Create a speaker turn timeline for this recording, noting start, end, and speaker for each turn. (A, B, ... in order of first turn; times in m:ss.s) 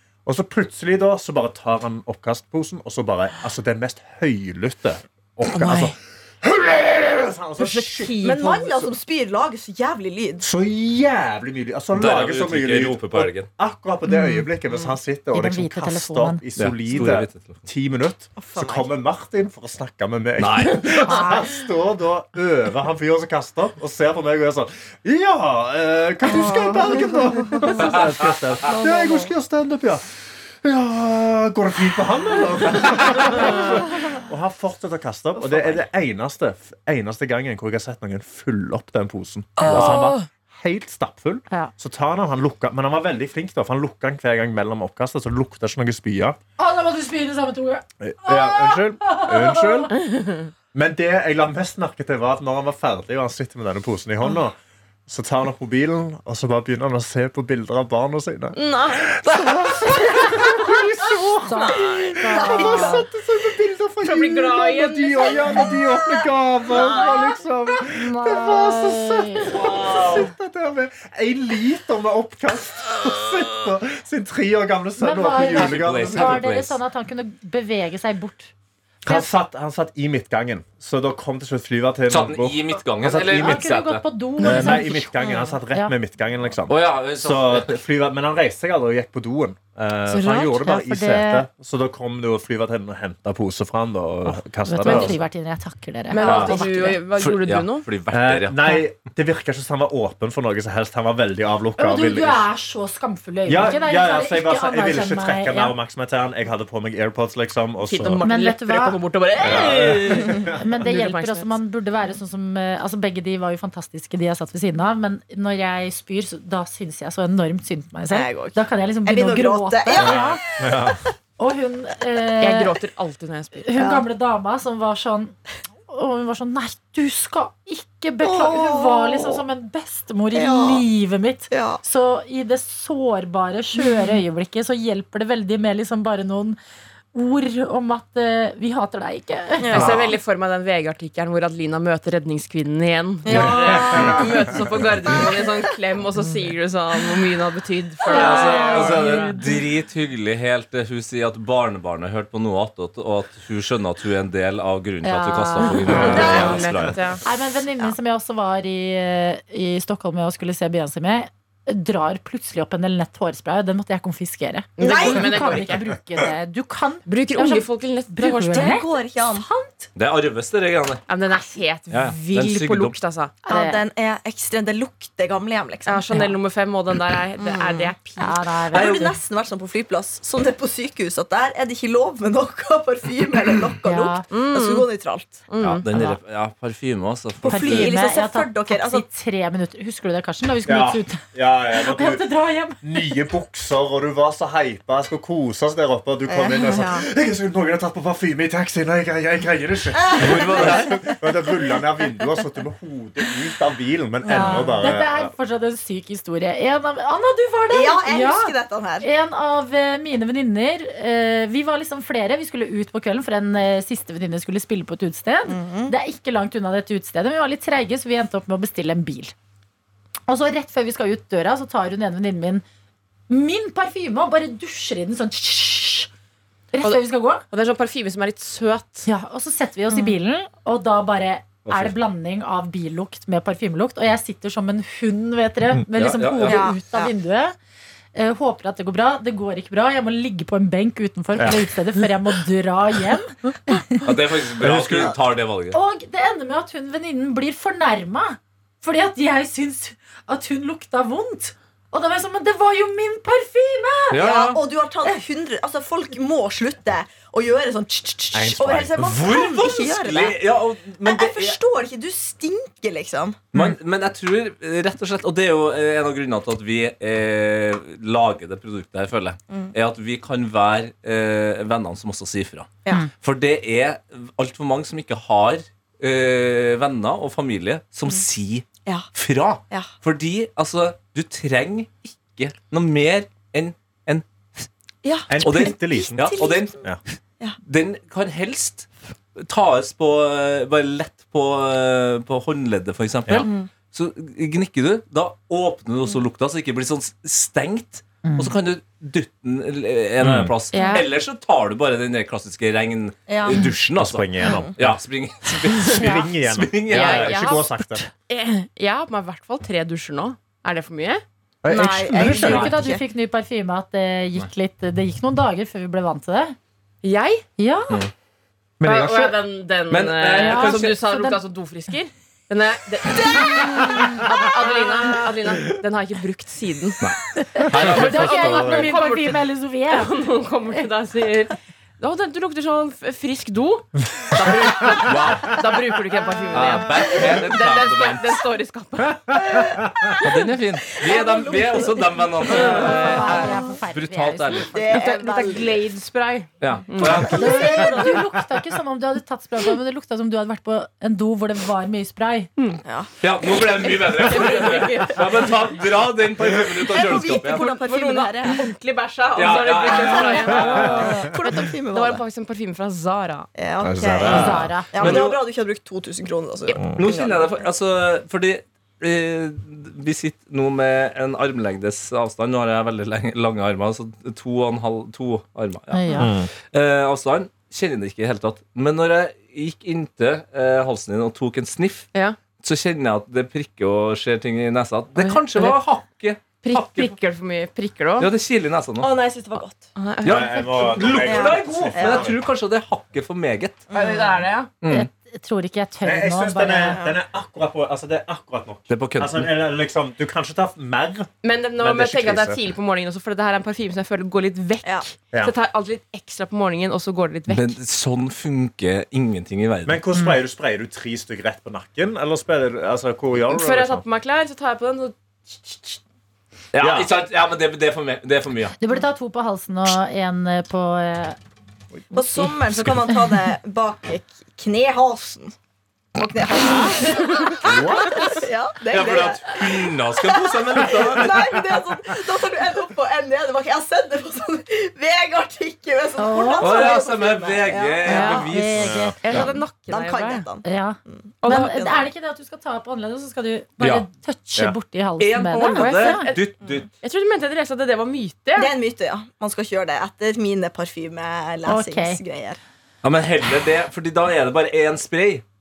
0:00.2-0:08.3 A
0:05.5-0:05.9 B
0:07.6-0:08.6 B
0:08.2-0:10.4 C
0:10.4-0:46.4 A
0:11.9-0:13.5 D
0:14.1-0:14.4 E
0:15.3-0:16.4 E
0:16.6-0:17.6 D
0:18.4-0:18.9 C
0:20.4-0:21.1 D
0:21.0-0:21.4 E
0:26.3-0:26.7 C
0:27.4-0:27.7 C
0:27.8-0:28.1 D
0:39.6-0:40.2 B
0:46.6-0:49.9 E
0:48.0-0:50.0 A
0:50.7-0:54.6 A
0:55.1-1:16.5 A
0:58.5-1:00.3 B
1:00.3-1:00.7 E
1:01.2-1:03.0 E
1:02.5-1:02.8 B
1:04.0-1:05.8 B
1:06.7-1:07.1 B
1:07.8-1:10.0 E
1:15.0-1:18.5 E
1:15.5-1:16.8 D
1:19.0-1:23.6 A
1:22.1-1:24.0 D
1:23.2-1:25.1 E
1:24.4-1:35.2 A
1:25.2-1:25.5 C
1:26.7-1:27.8 D
1:30.1-1:30.6 B
1:30.6-1:31.5 E
1:34.6-1:37.0 E
1:36.1-1:37.9 B
1:37.2-1:38.8 D
1:38.1-1:42.5 A
1:41.8-1:45.7 E
1:43.4-1:48.2 A
1:47.8-1:51.5 B
1:48.2-1:49.0 E
1:49.4-1:50.6 A
1:50.3-2:00.4 E
1:58.1-2:00.9 C
2:00.0-2:01.0 A
2:01.4-2:02.7 E
2:02.4-2:03.7 B
2:03.6-2:05.3 E
2:03.7-2:04.0 C
2:05.9-2:16.6 E
2:08.2-2:09.4 C
2:10.3-2:10.8 C
2:11.5-2:11.8 C
2:13.8-2:14.2 C
2:17.1-2:19.9 E
2:19.6-2:20.1 C
2:19.7-2:29.0 B
2:23.2-2:25.4 C
2:28.0-2:29.6 E
2:28.1-2:37.2 D
2:35.0-2:36.5 E
2:35.8-2:37.2 B
2:35.9-2:36.4 A
2:36.1-2:36.7 C
2:37.2-2:49.9 E
2:44.8-2:45.9 B
2:44.8-2:45.3 C
2:47.0-2:48.8 B
2:48.5-2:49.4 C
2:49.9-2:51.0 D
2:51.1-2:53.4 B
2:51.9-2:53.0 D
2:53.4-2:56.0 C
2:53.5-2:53.8 E
2:55.8-2:58.4 B
2:57.4-2:57.9 C
2:58.2-2:59.1 E
2:58.7-3:05.4 C
3:03.8-3:04.2 E
3:04.3-3:04.9 B
3:05.5-3:05.8 B
3:05.6-3:07.9 D
3:05.9-3:06.2 E
3:07.4-3:09.0 C
3:07.5-3:13.0 E
3:10.6-3:12.2 A
3:12.8-3:25.3 A
3:16.3-3:17.0 C
3:20.0-3:21.1 C
3:20.1-3:21.0 D
3:24.2-3:24.8 C
3:24.3-3:39.3 E
3:27.7-3:29.1 C
3:35.5-3:35.9 C
3:40.3-3:42.6 E
3:43.3-3:46.1 E
3:46.7-3:47.4 E
3:46.8-3:49.1 B
3:49.0-3:57.6 E
3:51.6-3:51.9 D
3:55.9-3:56.7 D
3:56.4-3:57.1 C
3:58.1-4:04.1 E
4:01.4-4:01.6 A
4:04.0-4:05.8 D
4:04.6-4:05.2 A
4:05.7-4:14.3 E
4:14.1-4:14.6 D
4:14.2-4:20.4 C
4:18.3-4:19.1 A
4:19.0-4:21.6 D
4:21.0-4:23.5 C
4:23.5-4:44.7 D
4:45.0-4:46.8 C
4:45.3-4:47.0 A
4:45.4-4:46.8 D
4:47.6-5:07.7 D
4:53.4-4:53.7 C
4:58.2-4:58.5 E
5:00.2-5:00.5 A
5:00.7-5:01.1 B
5:00.8-5:01.0 E
5:03.3-5:03.7 C
5:03.5-5:05.0 A
5:04.4-5:04.7 C
5:05.8-5:08.0 A
5:06.9-5:07.7 B
5:08.3-5:11.2 B
5:11.6-5:12.8 A
5:11.7-5:13.0 C
5:12.2-5:16.6 E
5:17.0-5:17.4 B
5:17.6-5:18.0 E
5:18.8-5:19.3 A
5:18.8-5:27.0 B
5:19.9-5:20.9 D
5:20.3-5:21.4 E
5:27.0-5:28.9 D
5:27.4-5:30.2 E
5:27.7-5:28.9 A
5:27.7-5:39.6 B
5:34.4-5:35.6 D
5:36.5-5:38.4 D
5:39.4-5:40.3 C
5:40.2-5:44.7 D
5:41.0-5:43.6 C
5:42.5-5:44.9 E
5:42.5-5:43.0 B
5:44.7-5:45.8 C
5:44.9-5:47.4 B
5:46.6-5:48.0 D
5:47.1-5:48.2 C
5:47.3-5:52.5 E
5:52.6-5:52.8 B
5:52.8-5:53.1 C
5:53.2-5:57.7 D
5:53.8-5:55.4 B
5:56.9-5:58.7 C
5:57.5-6:03.5 B
5:59.4-6:01.2 D
5:59.8-6:02.2 C
6:03.5-6:07.7 C
6:03.8-6:05.2 A
6:04.2-6:05.4 D
6:04.2-6:04.9 E
6:06.9-6:27.1 D
6:15.9-6:16.3 E
6:16.2-6:16.5 A
6:25.2-6:25.8 B
6:26.6-6:28.3 B
6:28.2-6:29.1 D
6:29.0-6:29.9 C
6:29.9-6:31.1 B
6:30.2-6:33.9 D
6:30.2-6:32.4 A
6:31.2-6:32.3 C
6:33.9-6:34.5 C
6:33.9-6:34.7 B
6:34.8-6:35.1 D
6:34.9-6:37.0 E
6:36.0-6:42.6 A
6:38.9-6:39.5 D
6:41.4-6:47.7 B
6:47.5-6:50.0 D
6:49.8-6:54.0 A
6:53.4-6:56.0 B
6:56.7-6:58.8 D
6:56.8-6:57.1 A
6:58.8-7:01.4 E
7:02.1-7:05.5 C
7:06.1-7:18.5 C
7:07.6-7:08.3 A
7:08.9-7:11.6 D
7:16.2-7:16.9 E
7:16.6-7:19.5 D
7:18.0-7:18.6 B
7:18.1-7:19.2 E
7:19.2-7:20.4 B
7:19.3-7:22.0 C
7:20.6-7:26.3 E
7:21.4-7:22.0 B
7:23.8-7:24.0 D
7:24.6-7:26.9 D
7:25.6-7:28.7 B
7:28.6-7:32.6 C
7:31.6-7:32.2 E
7:33.0-7:35.4 D